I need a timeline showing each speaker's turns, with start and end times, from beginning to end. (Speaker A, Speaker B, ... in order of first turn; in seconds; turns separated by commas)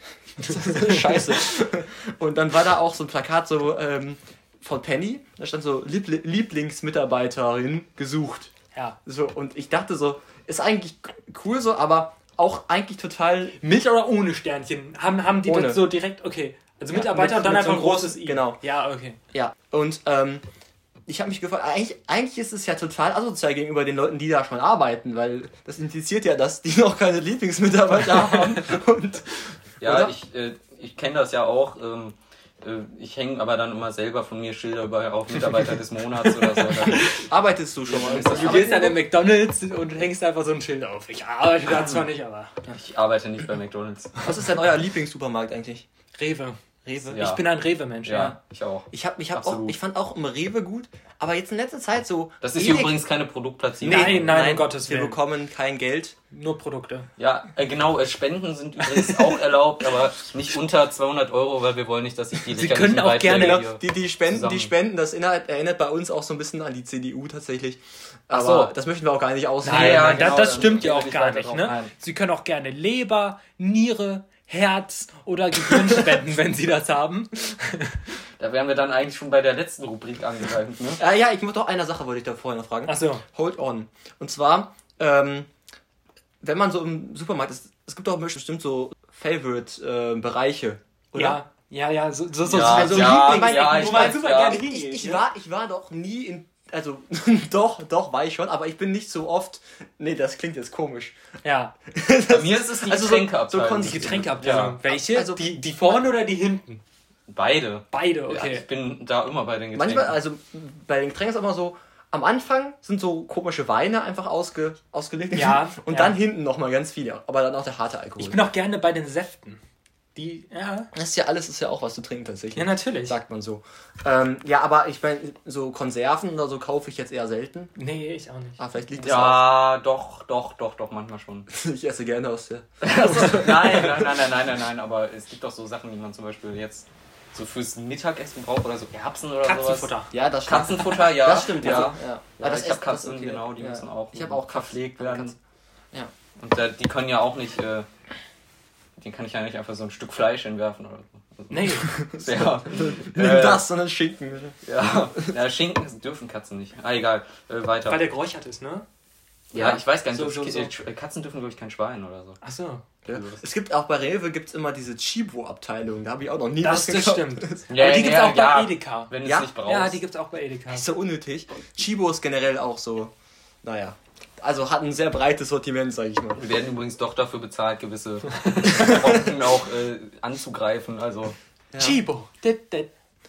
Speaker A: 0.4-8.5, Speaker B: 0.5-0.9, Speaker A: 9.1-13.6, Speaker B: 13.6-19.2, Speaker A: 15.4-15.9, Speaker A: 16.9-18.6, Speaker A: 19.3-20.4, Speaker A: 21.1-30.1, Speaker C: 29.8-37.0, Speaker A: 37.0-39.0, Speaker C: 37.9-38.9, Speaker B: 38.2-42.5, Speaker C: 42.7-44.1, Speaker A: 44.2-45.9, Speaker B: 46.2-48.3, Speaker A: 46.8-47.3, Speaker C: 47.1-47.4, Speaker C: 48.0-49.8, Speaker A: 48.9-53.0, Speaker C: 52.4-54.3, Speaker A: 53.8-56.1, Speaker B: 53.9-55.2, Speaker B: 56.3-57.1, Speaker C: 57.2-64.7, Speaker B: 62.5-63.6, Speaker A: 63.2-70.7, Speaker C: 68.3-68.7, Speaker C: 69.6-71.9, Speaker B: 69.6-78.0, Speaker C: 78.4-81.0, Speaker A: 81.0-85.5, Speaker B: 82.8-83.2, Speaker A: 86.4-91.4, Speaker B: 91.1-95.2, Speaker C: 92.5-94.6, Speaker A: 92.5-101.2, Speaker B: 101.4-101.7, Speaker A: 101.9-106.0, Speaker C: 102.3-104.8, Speaker B: 103.8-106.8, Speaker C: 107.3-110.2, Speaker B: 107.9-108.6, Speaker A: 109.7-118.4, Speaker B: 115.3-116.2, Speaker B: 118.2-119.6, Speaker B: 120.2-120.9, Speaker A: 120.9-127.7, Speaker B: 122.5-123.2, Speaker B: 127.8-128.6, Speaker A: 128.6-129.5, Speaker C: 129.0-131.5, Speaker A: 131.5-134.1, Speaker C: 132.8-145.3, Speaker B: 139.4-140.1, Speaker A: 140.1-145.4, Speaker C: 146.4-147.9, Speaker C: 149.0-153.6, Speaker B: 151.5-151.9, Speaker A: 151.9-155.3, Speaker C: 154.6-158.1, Speaker B: 157.9-158.8, Speaker A: 159.5-159.8, Speaker C: 159.5-162.4, Speaker B: 160.1-160.7, Speaker B: 162.4-162.8, Speaker A: 163.0-167.7, Speaker C: 163.1-163.4, Speaker B: 166.6-170.8, Speaker C: 167.7-170.0, Speaker A: 169.2-169.5, Speaker A: 170.7-173.1, Speaker A: 173.6-176.4, Speaker C: 176.3-181.3, Speaker A: 181.7-182.0, Speaker B: 181.8-182.9